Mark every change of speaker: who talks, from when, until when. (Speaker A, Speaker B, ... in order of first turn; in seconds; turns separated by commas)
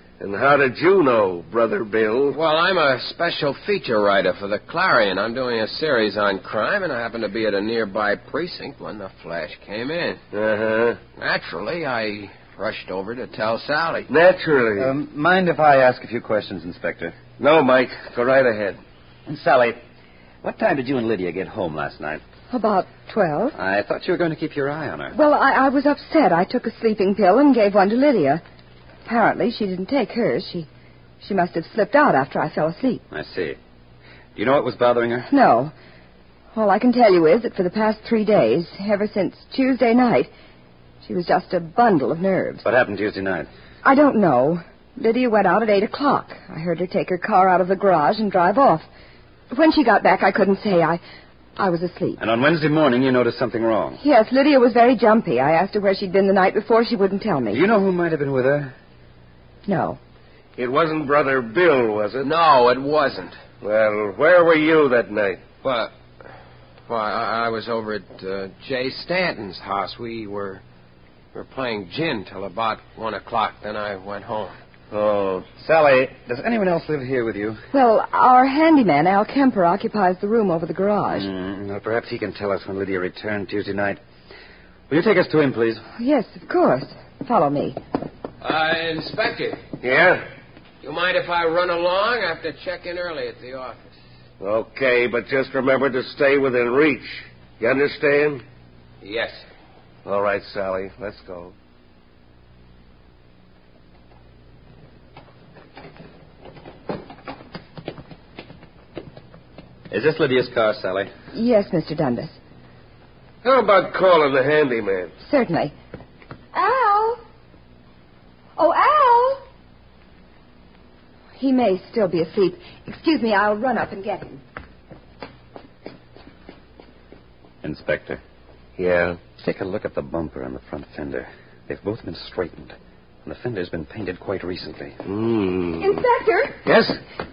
Speaker A: 0.2-2.4, Speaker B: 2.3-10.2, Speaker A: 10.3-11.0, Speaker B: 11.2-14.1, Speaker A: 14.1-14.9, Speaker C: 14.8-17.2, Speaker A: 17.4-18.8, Speaker C: 19.3-19.8, Speaker C: 20.4-22.2, Speaker D: 22.5-23.6, Speaker C: 23.6-25.2, Speaker D: 25.1-28.4, Speaker D: 29.1-30.7, Speaker D: 31.2-33.0, Speaker C: 33.1-33.6, Speaker C: 34.4-35.3, Speaker D: 35.3-35.7, Speaker D: 36.5-40.3, Speaker D: 41.0-42.6, Speaker C: 42.6-43.5, Speaker D: 43.8-48.9, Speaker D: 49.5-51.0, Speaker D: 51.6-52.2, Speaker C: 52.2-54.0, Speaker D: 54.0-57.6, Speaker C: 57.5-58.7, Speaker D: 59.7-60.0, Speaker A: 60.6-62.3, Speaker B: 62.2-63.4, Speaker A: 63.6-65.4, Speaker B: 65.6-65.9, Speaker B: 66.9-70.6, Speaker B: 71.3-74.6, Speaker A: 74.9-75.5, Speaker C: 75.6-77.6, Speaker D: 77.7-81.3, Speaker C: 81.1-84.0, Speaker C: 84.9-85.8, Speaker D: 86.0-87.8, Speaker B: 88.4-89.6, Speaker A: 89.8-90.2, Speaker B: 90.8-94.0, Speaker A: 94.4-98.4, Speaker B: 99.0-99.5, Speaker A: 100.0-101.5, Speaker C: 109.9-111.1, Speaker D: 111.3-112.4, Speaker A: 113.4-115.1, Speaker D: 115.2-115.7, Speaker D: 116.5-117.2, Speaker D: 118.6-119.4, Speaker D: 121.4-124.4, Speaker C: 127.6-128.2, Speaker A: 128.8-129.2, Speaker C: 129.4-135.0, Speaker A: 135.1-136.0, Speaker D: 135.8-136.6, Speaker A: 136.7-137.0